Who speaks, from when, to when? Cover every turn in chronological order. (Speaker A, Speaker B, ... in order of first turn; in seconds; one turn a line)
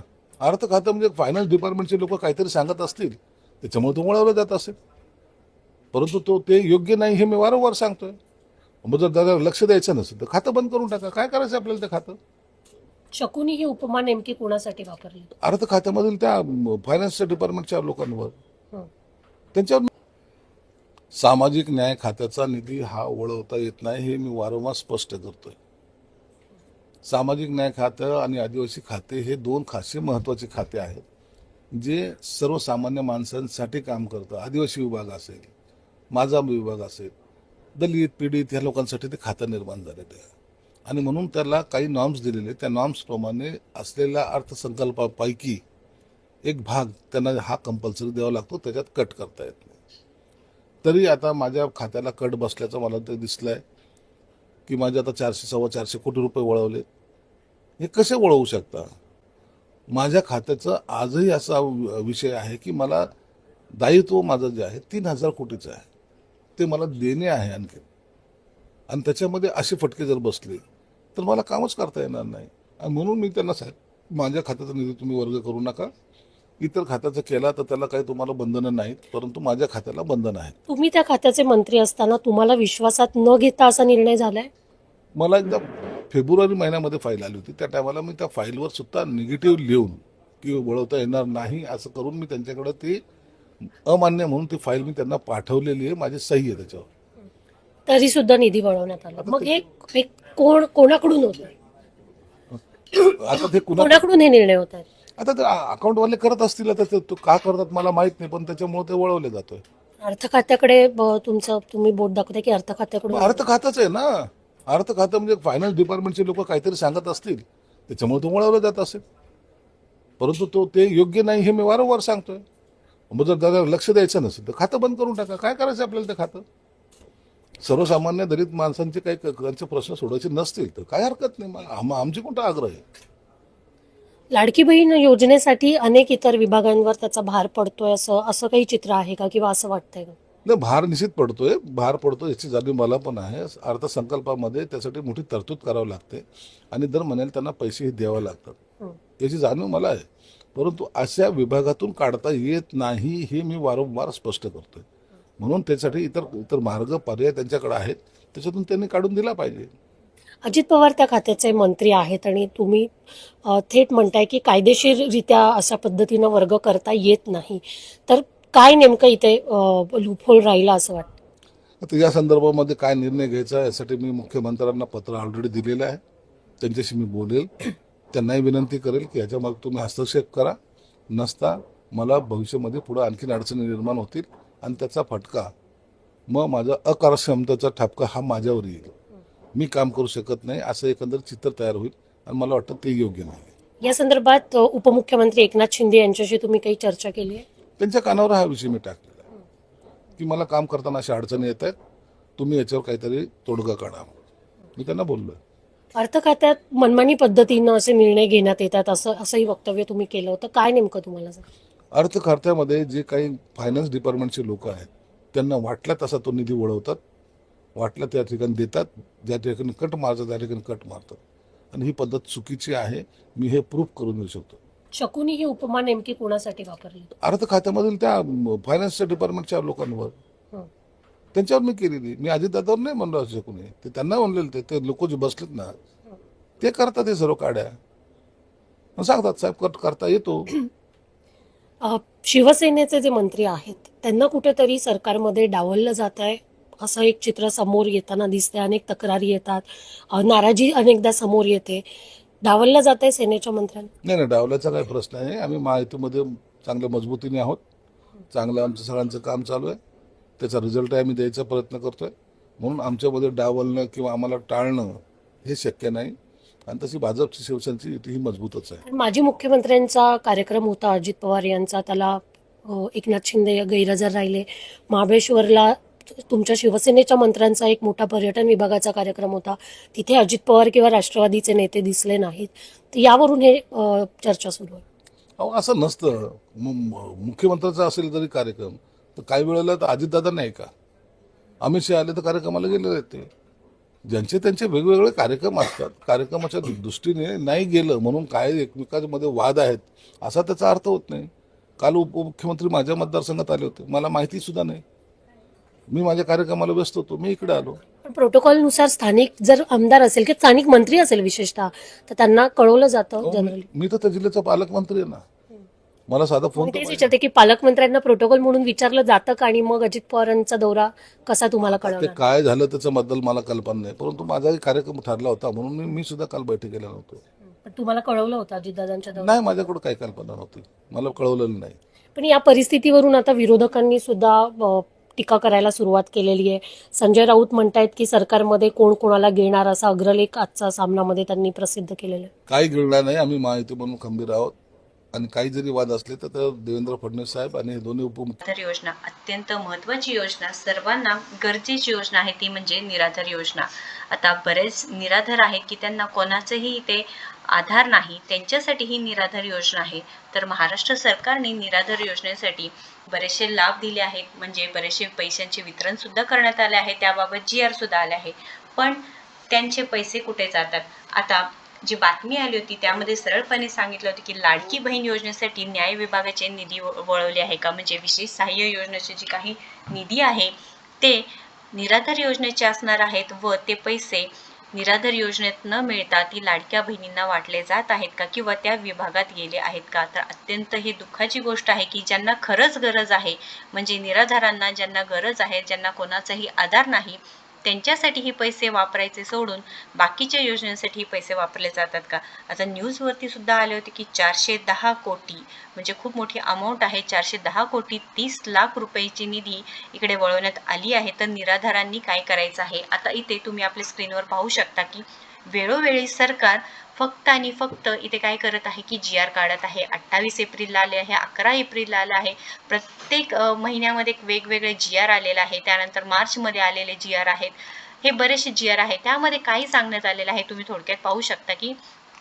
Speaker A: 0.4-4.7
Speaker A: 5.9-8.2
Speaker A: 8.8-12.2
Speaker B: 13.1-15.3
Speaker A: 15.4-18.3
Speaker A: 19.5-19.9
Speaker A: 21.1-25.6
Speaker A: 27.1-31.0
Speaker A: 31.8-35.5
Speaker A: 36.1-37.1
Speaker A: 37.8-40.3
Speaker A: 40.9-45.6
Speaker A: 46.4-49.8
Speaker A: 50.8-53.6
Speaker A: 54.7-56.8
Speaker A: 57.8-58.9
Speaker A: 59.9-63.0
Speaker A: 63.8-65.8
Speaker A: 66.6-67.8
Speaker A: 68.9-70.6
Speaker A: 71.2-75.9
Speaker A: 76.6-80.5
Speaker B: 80.7-84.5
Speaker A: 85.2-93.0
Speaker A: 93.8-96.9
Speaker B: 97.9-101.5
Speaker A: 99.2-99.5
Speaker A: 102.9-104.0
Speaker B: 103.8-104.8
Speaker A: 105.2-109.6
Speaker B: 110.0-113.4
Speaker A: 113.1-119.0
Speaker A: 120.2-122.4
Speaker A: 123.1-126.4
Speaker A: 127.6-132.8
Speaker B: 134.3-140.2
Speaker A: 140.4-148.6
Speaker A: 149.2-154.8
Speaker A: 155.4-159.7
Speaker B: 160.4-162.9
Speaker B: 163.4-171.1
Speaker A: 171.8-176.0
Speaker A: 176.6-180.6
Speaker A: 181.1-185.5
Speaker A: 186.3-188.9
Speaker A: 189.5-193.5
Speaker B: 193.8-197.4
Speaker A: 197.8-199.2
Speaker A: 200.2-201.7
Speaker A: 202.4-204.1
Speaker A: 204.8-205.4
Speaker B: 205.9-211.4
Speaker A: 211.9-217.0
Speaker A: 217.8-221.2
Speaker A: 221.7-224.6
Speaker B: 224.9-227.1
Speaker A: 227.2-230.2
Speaker A: 231.3-235.7
Speaker A: 236.6-237.8
Speaker A: 239.0-240.5
Speaker B: 241.8-251.8
Speaker B: 252.4-253.9
Speaker A: 254.0-257.6
Speaker A: 258.3-259.8
Speaker A: 260.4-266.1
Speaker A: 266.7-268.8
Speaker B: 268.9-284.8
Speaker A: 285.4-290.7
Speaker A: 291.6-293.3
Speaker A: 294.1-301.3
Speaker A: 301.8-304.8
Speaker A: 305.9-307.8
Speaker B: 308.0-313.6
Speaker A: 313.2-315.2
Speaker A: 316.1-317.1
Speaker B: 316.6-322.2
Speaker A: 321.8-327.2
Speaker B: 327.6-329.4
Speaker A: 329.2-331.8
Speaker B: 332.1-342.3
Speaker A: 342.5-344.5
Speaker A: 345.1-348.4
Speaker C: 348.4-431.8